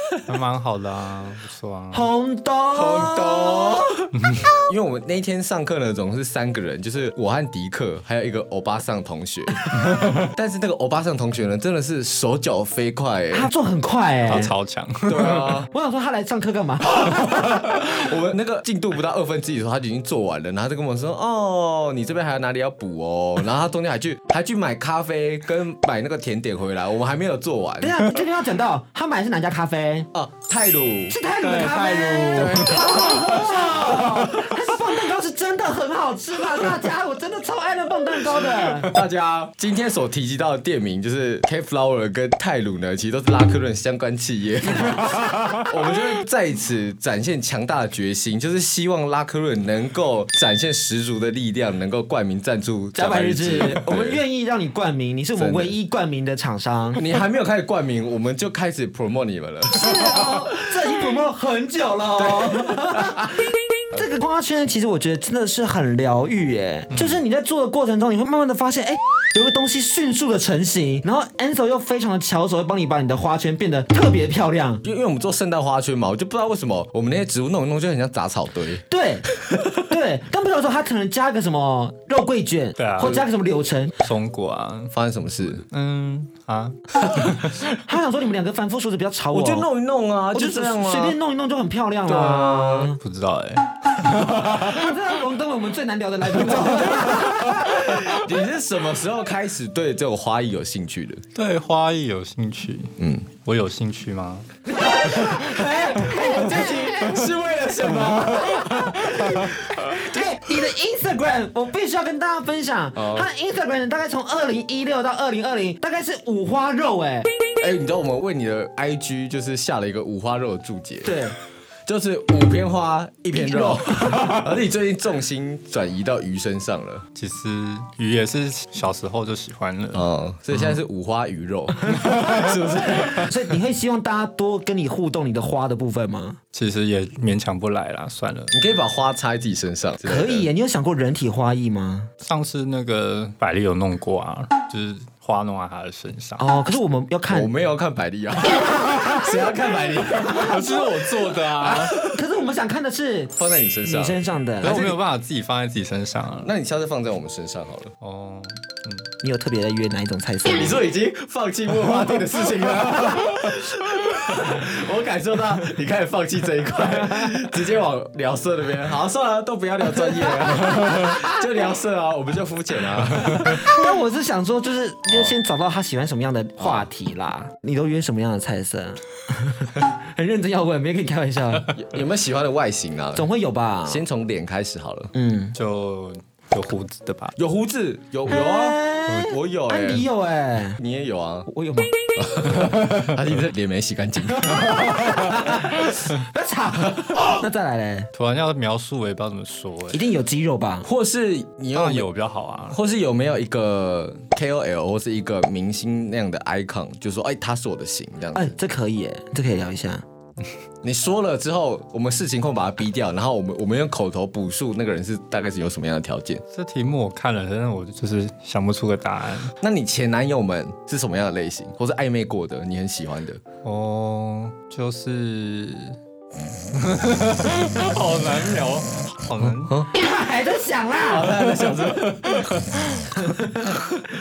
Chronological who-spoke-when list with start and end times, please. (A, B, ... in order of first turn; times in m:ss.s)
0:00.3-0:02.1 A
0:01.9-0:03.9 B
0:02.7-0:13.5 C
0:04.1-0:04.5 A
0:09.8-0:10.2 A
0:13.3-0:14.5 B
0:14.3-0:15.6 A
0:15.1-0:15.7 C
0:15.7-0:17.3 B
0:17.0-0:28.0 C
0:27.8-0:30.1 B
0:30.1-0:31.2 C
0:31.1-0:39.0 B
0:31.4-0:32.8 A
0:32.3-0:34.3 C
0:38.9-0:54.2 C
0:45.2-0:45.6 A
0:53.0-0:57.0 B
0:55.4-0:55.7 C
0:57.0-1:00.5 C
0:59.7-1:14.8 B
1:02.2-1:03.4 C
1:06.9-1:07.2 A
1:14.8-1:19.7 C
1:18.9-1:24.0 B
1:22.8-1:23.2 A
1:24.0-1:25.0 A
1:24.9-1:25.6 C
1:25.6-1:27.8 A
1:27.7-1:29.7 B
1:29.3-1:31.2 C
1:30.3-1:33.0 B
1:32.0-1:33.0 C
1:33.0-1:35.0 A
1:34.1-1:38.2 B
1:36.8-1:37.3 A
1:37.7-1:41.2 C
1:41.4-1:44.5 A
1:43.0-1:43.3 C
1:44.7-1:47.3 B
1:45.3-1:50.1 C
1:48.1-1:57.3 B
1:48.4-1:49.4 A
1:53.0-1:53.3 C
1:57.6-2:01.1 C
2:01.0-2:01.4 B
2:01.9-2:07.1 C
2:03.3-2:04.4 B
2:07.2-2:10.1 A
2:09.9-2:13.4 C
2:11.9-2:16.4 B
2:16.5-2:18.6 A
2:18.5-2:20.5 C
2:20.0-2:22.1 B
2:22.2-2:26.4 A
2:26.4-2:27.5 B
2:27.3-2:30.8 C
2:30.2-2:31.9 A
2:30.3-2:30.8 B
2:31.6-2:34.8 B
2:33.4-2:35.0 C
2:34.6-2:36.5 A
2:36.4-2:37.9 C
2:38.0-2:39.1 A
2:39.2-2:40.8 B
2:40.5-2:53.7 C
2:50.5-2:51.4 B
2:53.2-3:01.7 B
2:56.6-2:56.9 C
3:01.7-3:03.3 C
3:03.2-3:04.0 B
3:03.9-3:05.1 C
3:05.1-3:05.6 B
3:05.6-3:07.4 A
3:07.4-3:10.1 C
3:08.3-3:10.8 B
3:10.8-3:11.5 C
3:11.5-3:11.9 B
3:12.2-3:15.6 C
3:14.4-3:18.1 B
3:18.1-3:20.1 A
3:19.9-3:20.9 B
3:20.8-3:22.1 C
3:21.7-3:22.8 A
3:22.7-3:28.5 C
3:28.3-3:30.0 B
3:30.8-3:36.4 C
3:36.5-3:39.6 A
3:39.6-3:43.4 C
3:43.6-3:46.0 A
3:46.7-3:49.8 A
3:49.4-3:49.9 C
3:49.9-3:51.3 B
3:51.0-3:52.8 C
3:52.9-3:53.9 B